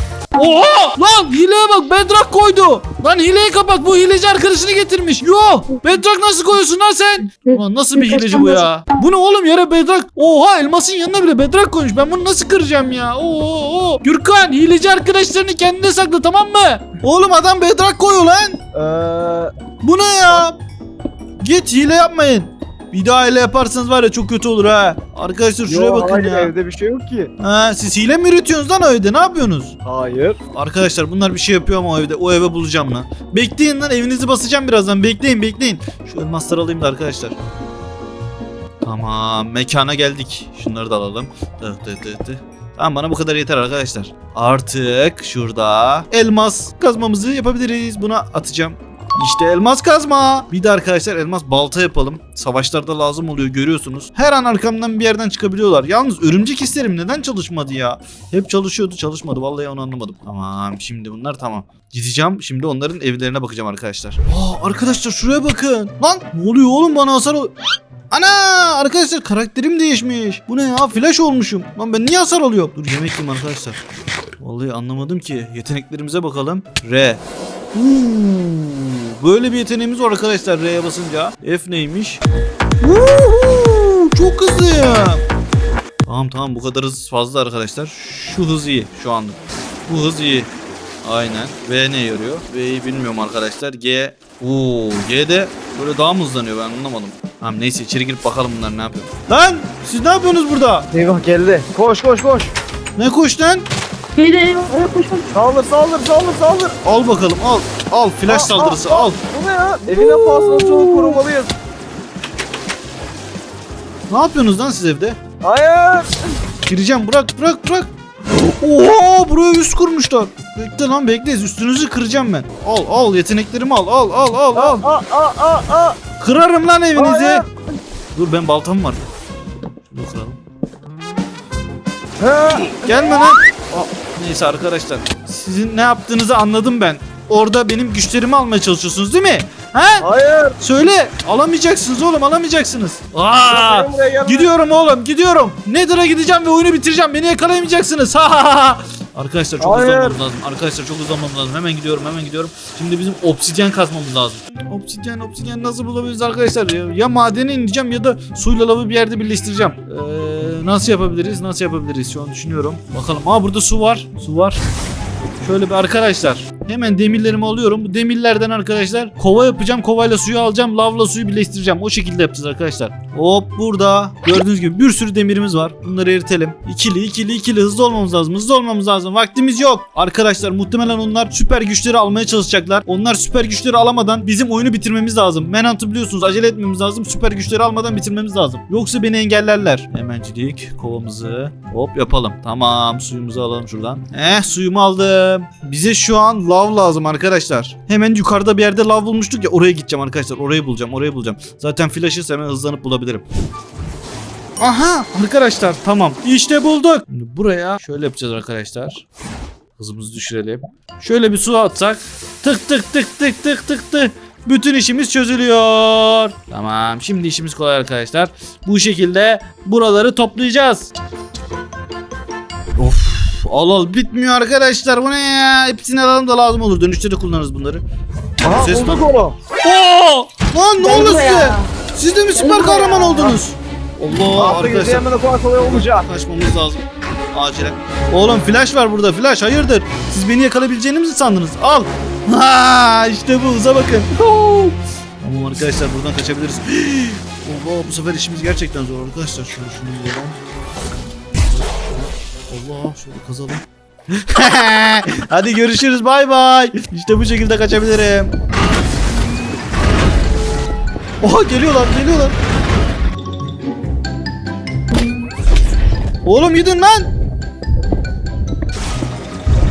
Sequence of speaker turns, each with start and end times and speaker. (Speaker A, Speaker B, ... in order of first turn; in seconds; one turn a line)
Speaker A: 0.3-18.6
Speaker B: 7.5-8.7
Speaker C: 18.7-19.5
Speaker A: 19.8-20.6
Speaker A: 21.4-26.5
Speaker C: 25.7-27.3
Speaker A: 27.4-29.8
Speaker C: 29.9-30.4
Speaker A: 30.5-37.4
Speaker A: 38.8-67.5
Speaker A: 68.1-73.8
Speaker A: 74.4-77.2
Speaker A: 77.7-82.2
Speaker A: 82.8-85.2
Speaker A: 86.1-90.5
Speaker A: 91.0-100.9
Speaker C: 100.9-102.5
Speaker A: 103.0-103.7
Speaker B: 104.2-105.3
Speaker C: 105.3-106.8
Speaker A: 106.8-109.2
Speaker C: 108.3-111.5
Speaker A: 109.9-111.2
Speaker A: 114.1-115.2
Speaker C: 115.4-116.2
Speaker A: 116.7-124.8
Speaker C: 124.5-126.0
Speaker A: 126.2-127.4
Speaker C: 127.0-127.5
Speaker A: 128.2-129.0
Speaker A: 129.9-130.4
Speaker C: 132.2-133.2
Speaker A: 132.8-140.1
Speaker C: 140.0-140.6
Speaker A: 140.6-164.6
Speaker C: 143.5-144.5
Speaker C: 149.6-150.2
Speaker A: 165.4-203.2
Speaker A: 204.6-209.1
Speaker A: 209.8-220.9
Speaker A: 222.8-227.8
Speaker C: 228.4-229.3
Speaker A: 228.5-229.1
Speaker A: 229.6-250.4
Speaker B: 230.8-231.7
Speaker B: 232.3-233.4
Speaker C: 234.3-236.1
Speaker A: 251.9-258.3
Speaker A: 261.2-262.4
Speaker A: 266.2-267.1